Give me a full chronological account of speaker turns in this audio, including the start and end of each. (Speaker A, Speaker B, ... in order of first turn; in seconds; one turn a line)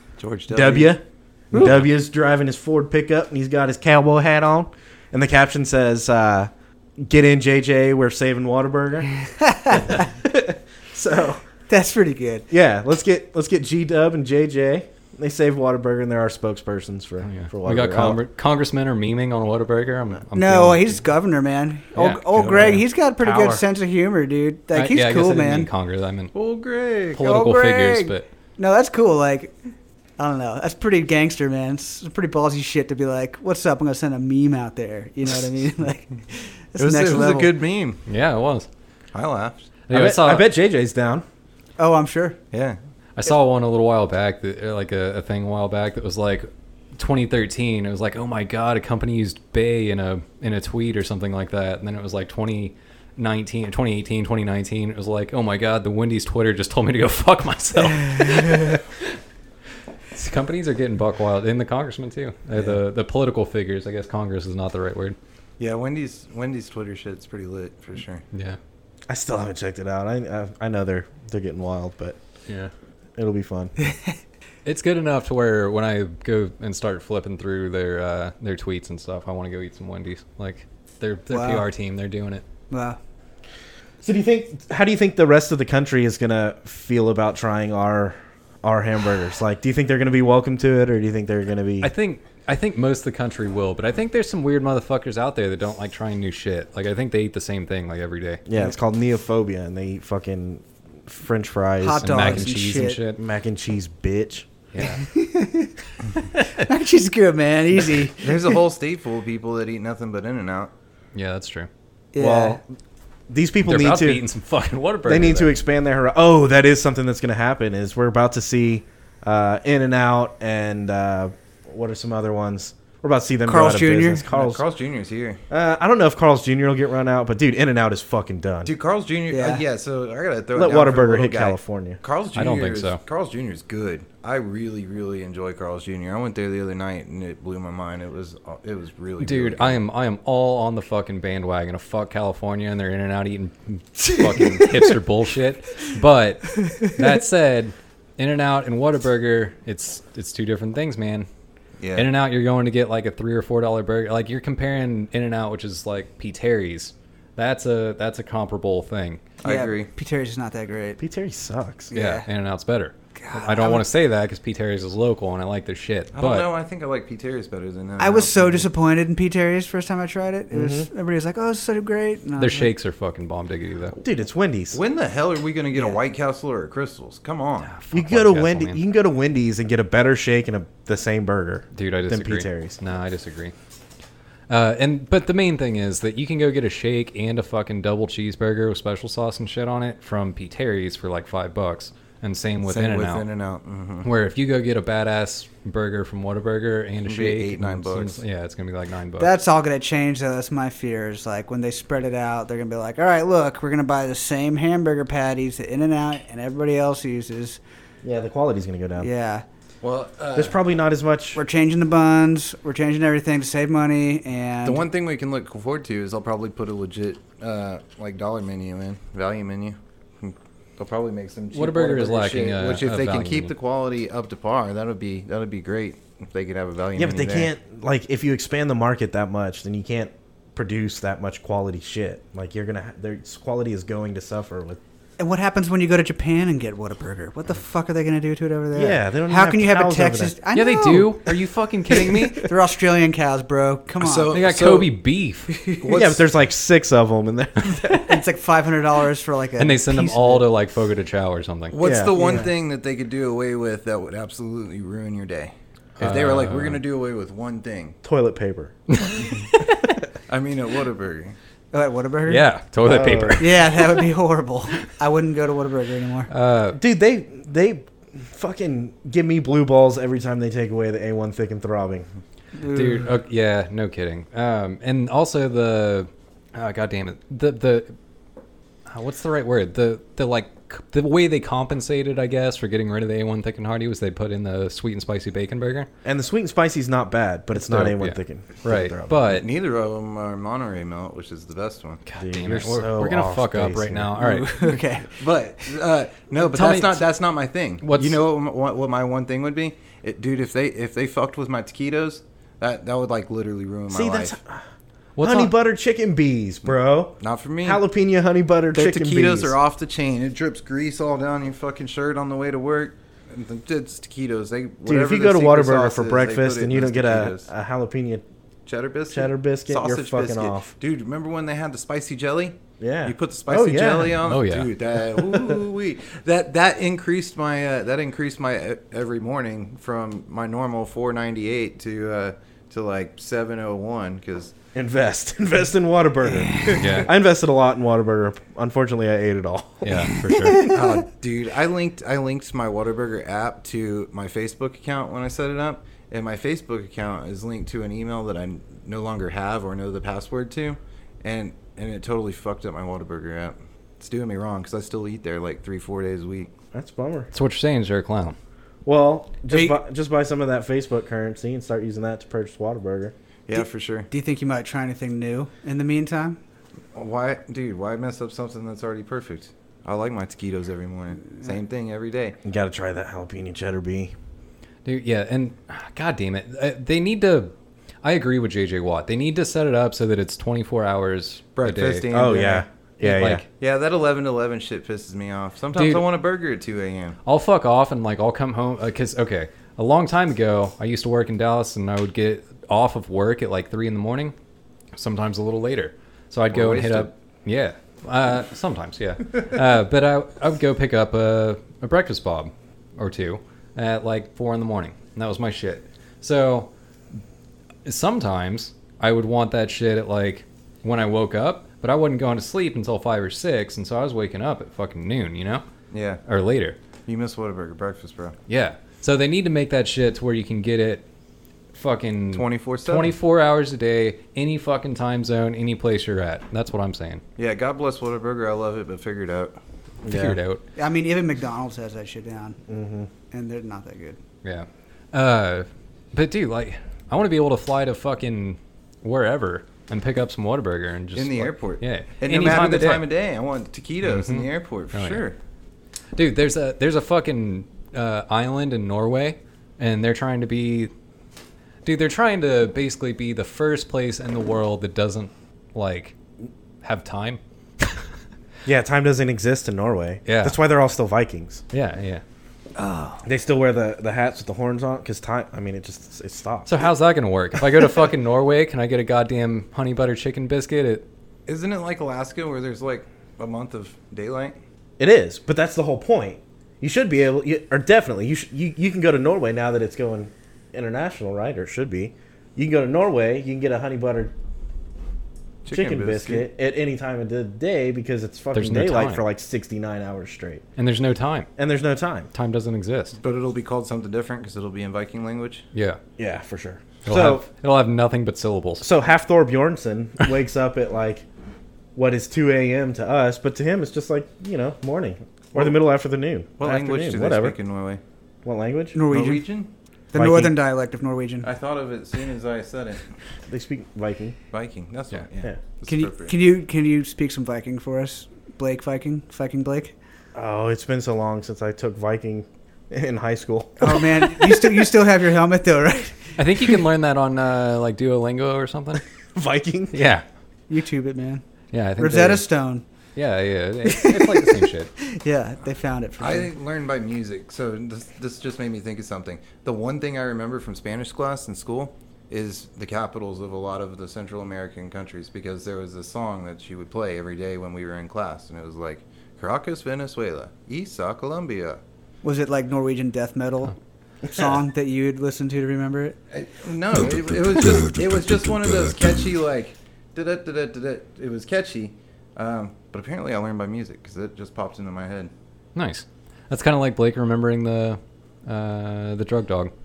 Speaker A: 0.2-1.0
Speaker B: 0.5-9.1
Speaker C: 9.4-10.1
Speaker B: 9.7-11.4
Speaker C: 11.7-12.5
Speaker B: 12.5-18.2
Speaker D: 17.2-21.0
Speaker C: 20.3-25.7
Speaker D: 21.9-22.2
Speaker A: 22.3-22.7
Speaker B: 22.3-23.6
Speaker D: 24.7-26.3
Speaker A: 26.3-27.2
Speaker D: 27.1-28.2
Speaker C: 27.2-29.6
Speaker C: 30.2-37.5
Speaker A: 36.8-38.0
Speaker D: 38.0-38.7
Speaker A: 39.1-39.6
Speaker D: 39.9-40.5
Speaker B: 39.9-41.2
Speaker C: 41.8-42.4
Speaker A: 42.5-42.8
Speaker D: 43.2-59.2
Speaker D: 60.1-65.2
Speaker A: 65.6-68.2
Speaker D: 68.3-68.6
Speaker B: 69.1-72.2
Speaker D: 72.5-72.7
Speaker B: 73.2-73.7
Speaker C: 73.8-74.2
Speaker D: 74.6-82.4
Speaker C: 81.3-81.7
Speaker C: 82.7-83.0
Speaker B: 84.0-91.9
Speaker D: 91.8-98.4
Speaker B: 98.5-102.5
Speaker C: 101.8-103.0
Speaker D: 102.0-103.2
Speaker B: 103.2-104.5
Speaker D: 104.7-105.0
Speaker C: 104.8-105.7
Speaker C: 106.3-108.6
Speaker A: 108.2-110.7
Speaker D: 111.1-111.7
Speaker C: 112.1-112.6
Speaker B: 112.2-112.7
Speaker B: 113.3-114.2
Speaker D: 113.7-115.6
Speaker B: 115.0-124.6
Speaker C: 123.5-124.3
Speaker A: 124.3-125.4
Speaker B: 125.5-128.7
Speaker A: 128.6-139.8
Speaker C: 129.3-129.6
Speaker B: 130.5-132.0
Speaker D: 132.3-133.0
Speaker D: 139.2-151.3
Speaker A: 151.8-152.1
Speaker D: 151.9-159.2
Speaker A: 159.4-159.9
Speaker C: 159.4-161.0
Speaker B: 161.0-161.9
Speaker C: 161.9-162.2
Speaker D: 161.9-166.5
Speaker C: 163.1-163.8
Speaker A: 166.1-168.6
Speaker C: 168.0-172.7
Speaker B: 170.5-170.9
Speaker D: 172.4-174.0
Speaker B: 174.0-174.8
Speaker A: 174.7-177.7
Speaker C: 175.7-176.0
Speaker D: 177.6-178.8
Speaker B: 177.9-182.8
Speaker D: 181.7-183.5
Speaker D: 184.5-193.2
Speaker A: 192.6-194.1
Speaker D: 194.0-199.3
Speaker A: 197.0-198.2
Speaker C: 199.2-207.6
Speaker B: 208.0-209.1
Speaker C: 209.0-209.4
Speaker A: 209.8-210.6
Speaker B: 210.3-211.4
Speaker C: 211.3-214.9
Speaker A: 214.6-227.5
Speaker D: 221.5-223.5
Speaker B: 226.9-234.8
Speaker C: 235.2-241.3
Speaker B: 238.7-240.3
Speaker D: 240.5-242.5
Speaker C: 242.3-244.5
Speaker A: 244.0-244.9
Speaker D: 244.3-245.5
Speaker C: 245.5-246.0
Speaker A: 245.8-246.2
Speaker B: 245.9-248.2
Speaker C: 248.0-250.4
Speaker D: 249.6-251.8
Speaker A: 251.7-258.0
Speaker B: 251.8-252.2
Speaker C: 252.1-252.5
Speaker D: 256.0-256.8
Speaker B: 258.0-259.0
Speaker D: 258.9-259.6
Speaker A: 260.3-261.4
Speaker C: 261.7-262.4
Speaker D: 262.3-264.0
Speaker B: 262.8-263.4
Speaker C: 263.4-266.3
Speaker D: 266.3-266.8
Speaker B: 266.7-272.1
Speaker C: 272.5-273.1
Speaker D: 272.7-277.9
Speaker D: 278.9-285.9
Speaker B: 286.0-289.2
Speaker D: 287.5-289.4
Speaker A: 289.2-292.0
Speaker D: 292.1-294.6
Speaker B: 292.2-294.1
Speaker C: 294.2-295.2
Speaker A: 295.2-304.3
Speaker D: 296.4-297.1
Speaker D: 297.8-298.2
Speaker B: 303.9-304.6
Speaker D: 305.1-305.5
Speaker B: 305.2-309.6
Speaker A: 306.7-307.8
Speaker A: 308.7-317.5
Speaker B: 314.9-318.2
Speaker A: 318.6-334.5
Speaker B: 319.1-320.7
Speaker B: 322.8-324.3
Speaker D: 324.2-324.7
Speaker B: 325.3-325.6
Speaker B: 334.7-340.3
Speaker C: 336.5-336.8
Speaker D: 336.8-337.1
Speaker D: 339.8-340.6
Speaker C: 340.4-340.7
Speaker A: 340.6-356.5
Speaker B: 356.7-357.3
Speaker D: 357.3-358.4
Speaker B: 358.8-363.1
Speaker C: 359.5-359.8
Speaker A: 363.5-364.1
Speaker C: 363.5-366.4
Speaker A: 366.9-372.4
Speaker B: 372.4-374.1
Speaker D: 374.8-382.1
Speaker A: 381.6-382.6
Speaker B: 382.1-383.4
Speaker D: 383.0-383.4
Speaker A: 383.6-387.2
Speaker D: 385.7-386.1
Speaker D: 387.2-394.3
Speaker D: 394.9-406.7
Speaker A: 396.5-397.1
Speaker D: 407.8-415.6
Speaker A: 415.9-416.2
Speaker D: 416.2-416.8
Speaker A: 417.1-418.4
Speaker D: 418.5-421.0
Speaker D: 421.7-427.2
Speaker A: 422.3-423.1
Speaker A: 427.4-429.6
Speaker B: 430.0-430.4
Speaker D: 430.1-430.6
Speaker C: 430.8-432.6
Speaker B: 432.7-433.1
Speaker C: 433.3-434.2
Speaker D: 434.4-443.1
Speaker A: 441.1-445.4
Speaker D: 444.0-445.2
Speaker D: 446.1-450.9
Speaker D: 451.8-456.2
Speaker D: 456.8-458.0
Speaker B: 458.6-461.6
Speaker D: 460.2-460.6
Speaker D: 461.7-462.2
Speaker C: 462.8-463.1
Speaker B: 463.2-466.9
Speaker D: 466.6-471.1
Speaker A: 471.5-474.6
Speaker B: 475.0-484.3
Speaker A: 485.6-486.5
Speaker B: 485.7-490.6
Speaker D: 488.5-489.2
Speaker D: 490.8-491.5
Speaker B: 491.6-492.3
Speaker D: 492.3-493.2
Speaker A: 493.2-495.6
Speaker D: 495.7-496.0
Speaker B: 496.2-497.4
Speaker D: 497.0-498.9
Speaker B: 498.8-501.2
Speaker B: 501.9-507.6
Speaker A: 506.6-508.0
Speaker B: 508.4-509.0
Speaker C: 508.9-509.4
Speaker A: 509.1-509.7
Speaker C: 510.1-511.5
Speaker B: 510.1-510.5
Speaker A: 511.4-513.0
Speaker B: 513.5-514.4
Speaker A: 514.5-516.3
Speaker C: 515.9-519.9
Speaker B: 520.3-524.1
Speaker C: 523.8-526.3
Speaker D: 526.4-529.0
Speaker B: 529.3-530.0
Speaker D: 529.9-530.2
Speaker C: 530.7-531.4
Speaker D: 531.7-532.4
Speaker C: 532.0-532.8
Speaker D: 533.1-534.9
Speaker C: 533.8-536.5
Speaker A: 536.2-551.8
Speaker C: 552.2-556.2
Speaker A: 556.3-565.3
Speaker D: 565.7-569.7